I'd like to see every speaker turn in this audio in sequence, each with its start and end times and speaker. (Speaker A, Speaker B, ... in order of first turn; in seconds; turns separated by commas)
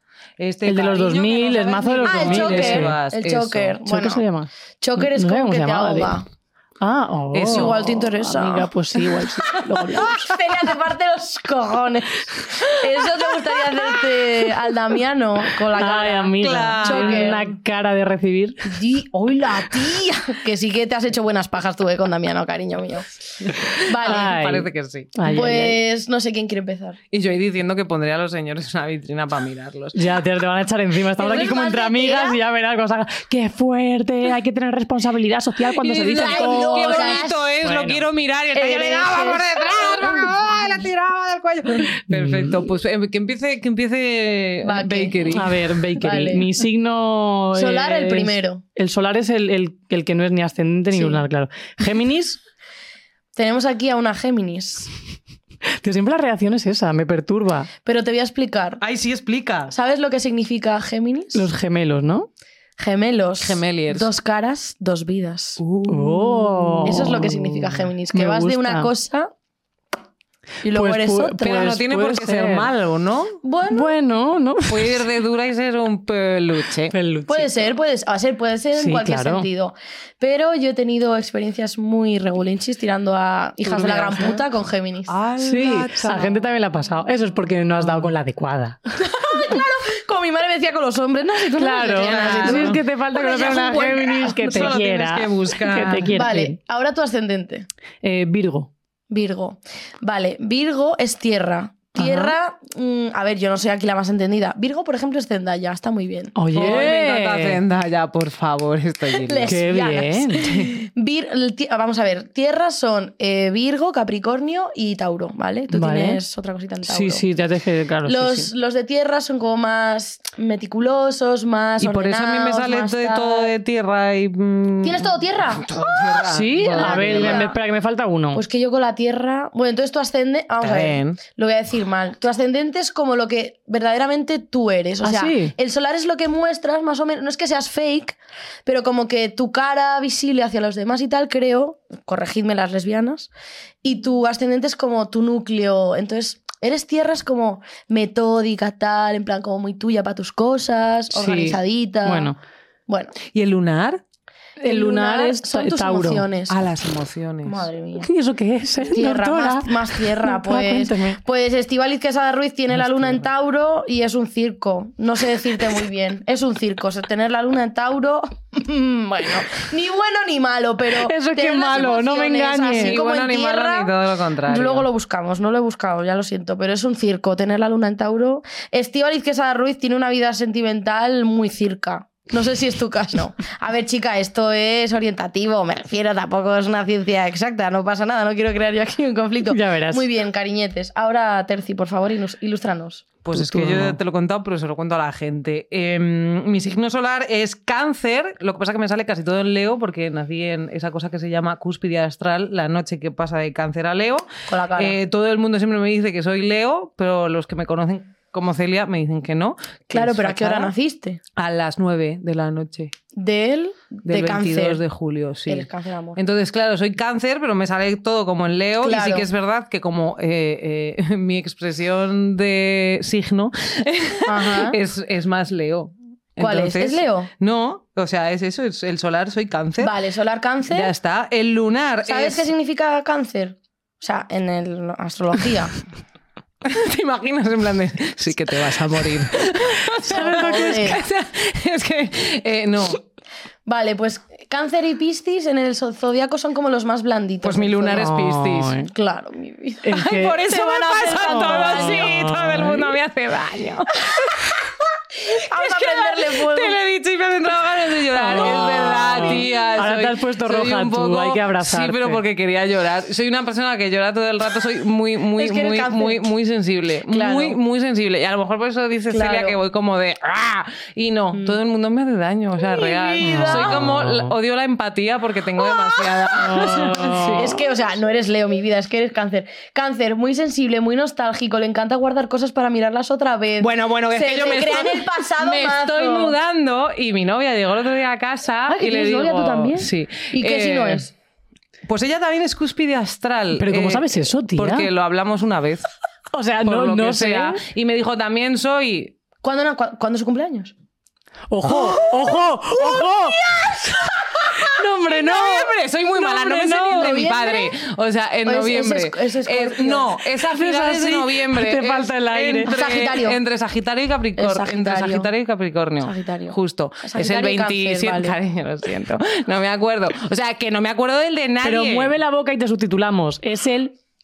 Speaker A: 0.4-3.8, Speaker B: 0.7-2.9, Speaker C: 2.0-4.2, Speaker B: 3.9-6.2, Speaker C: 4.8-6.2, Speaker B: 6.8-10.2, Speaker A: 7.3-8.0, Speaker C: 7.5-8.7, Speaker C: 10.0-17.5, Speaker B: 15.8-18.8, Speaker A: 16.4-17.4, Speaker C: 18.6-23.1, Speaker C: 23.8-24.3, Speaker A: 23.9-25.1, Speaker B: 24.0-25.8, Speaker C: 25.3-27.0, Speaker A: 27.1-29.9, Speaker B: 29.9-38.0, Speaker C: 31.2-32.4, Speaker A: 35.8-45.7, Speaker C: 36.1-37.4, Speaker C: 38.5-40.4, Speaker B: 42.1-42.6, Speaker C: 44.6-45.4, Speaker B: 45.3-52.4, Speaker C: 46.0-46.5, Speaker C: 47.5-48.6, Speaker C: 50.9-51.2, Speaker C: 53.3-54.9, Speaker B: 55.8-57.7, Speaker C: 57.8-58.8, Speaker A: 58.8-59.7, Speaker C: 59.7-61.5, Speaker B: 61.3-62.3, Speaker C: 62.8-65.6, Speaker A: 63.4-64.1, Speaker A: 65.6-67.0, Speaker B: 65.9-68.9, Speaker C: 66.8-69.3, Speaker C: 70.6-71.6, Speaker B: 70.7-72.7, Speaker A: 71.4-73.4, Speaker C: 73.4-73.9, Speaker B: 73.7-75.0, Speaker A: 74.7-76.9, Speaker B: 76.9-77.5, Speaker C: 77.3-85.1, Speaker B: 78.8-79.5, Speaker A: 83.6-84.4, Speaker A: 85.1-86.3, Speaker B: 85.4-88.8, Speaker C: 89.0-94.7, Speaker B: 91.6-96.6, Speaker A: 91.9-92.8, Speaker A: 93.4-96.2, Speaker C: 96.1-97.7, Speaker B: 98.0-98.7, Speaker C: 99.1-106.3, Speaker B: 102.0-102.3, Speaker B: 106.3-107.6, Speaker A: 106.5-109.6, Speaker C: 109.1-117.2, Speaker B: 109.5-110.4, Speaker A: 110.4-110.7, Speaker B: 115.7-116.2, Speaker B: 116.8-118.5, Speaker C: 118.0-123.5, Speaker A: 121.8-127.5, Speaker C: 124.8-127.5, Speaker B: 126.3-128.4, Speaker C: 128.3-143.3, Speaker A: 130.6-131.2, Speaker B: 135.0-135.5, Speaker C: 143.8-152.3, Speaker B: 151.1-152.3, Speaker C: 152.9-153.1, Speaker A: 153.2-154.0, Speaker B: 154.6-156.2, Speaker C: 154.6-156.6, Speaker A: 156.5-157.7, Speaker C: 157.4-158.1, Speaker B: 158.0-161.2, Speaker C: 158.9-193.1, Speaker B: 170.9-173.0, Speaker A: 172.8-174.9, Speaker B: 189.5-190.0, Speaker A: 193.2-210.7, Speaker B: 193.3-194.0, Speaker C: 204.5-204.9, Speaker C: 209.9-211.2, Speaker A: 211.3-212.9, Speaker C: 213.1-214.8, Speaker A: 214.1-229.9, Speaker C: 215.5-216.2, Speaker C: 218.8-219.3, Speaker C: 224.2-224.8, Speaker C: 226.4-227.3, Speaker C: 229.8-230.9, Speaker A: 230.7-232.5, Speaker C: 232.1-235.8, Speaker A: 236.6-243.0, Speaker C: 240.0-241.0, Speaker B: 240.1-240.9, Speaker C: 243.7-248.1, Speaker A: 247.4-248.8, Speaker B: 247.9-248.9, Speaker C: 248.9-249.9, Speaker B: 249.8-250.4, Speaker A: 249.9-254.7, Speaker C: 250.4-252.2, Speaker B: 251.1-252.9, Speaker C: 255.2-256.8, Speaker A: 255.5-277.6, Speaker B: 258.1-262.2, Speaker C: 258.4-259.4, Speaker C: 265.4-266.2, Speaker C: 267.1-267.6, Speaker C: 269.1-269.6, Speaker C: 272.6-273.8, Speaker B: 273.2-274.3, Speaker C: 275.6-276.2, Speaker B: 276.4-277.6, Speaker C: 277.4-286.3, Speaker A: 283.6-291.1, Speaker C: 288.7-291.1, Speaker A: 291.9-295.8, Speaker B: 293.6-294.9, Speaker B: 296.3-297.6, Speaker A: 296.6-299.1, Speaker C: 299.4-300.7, Speaker B: 301.5-303.5, Speaker B: 304.6-305.7, Speaker A: 304.8-322.1, Speaker C: 306.2-307.7, Speaker B: 306.6-307.0, Speaker C: 308.4-310.1, Speaker B: 310.4-312.7, Speaker C: 312.6-313.4, Speaker C: 314.4-315.3, Speaker C: 316.0-318.4, Speaker B: 321.6-323.9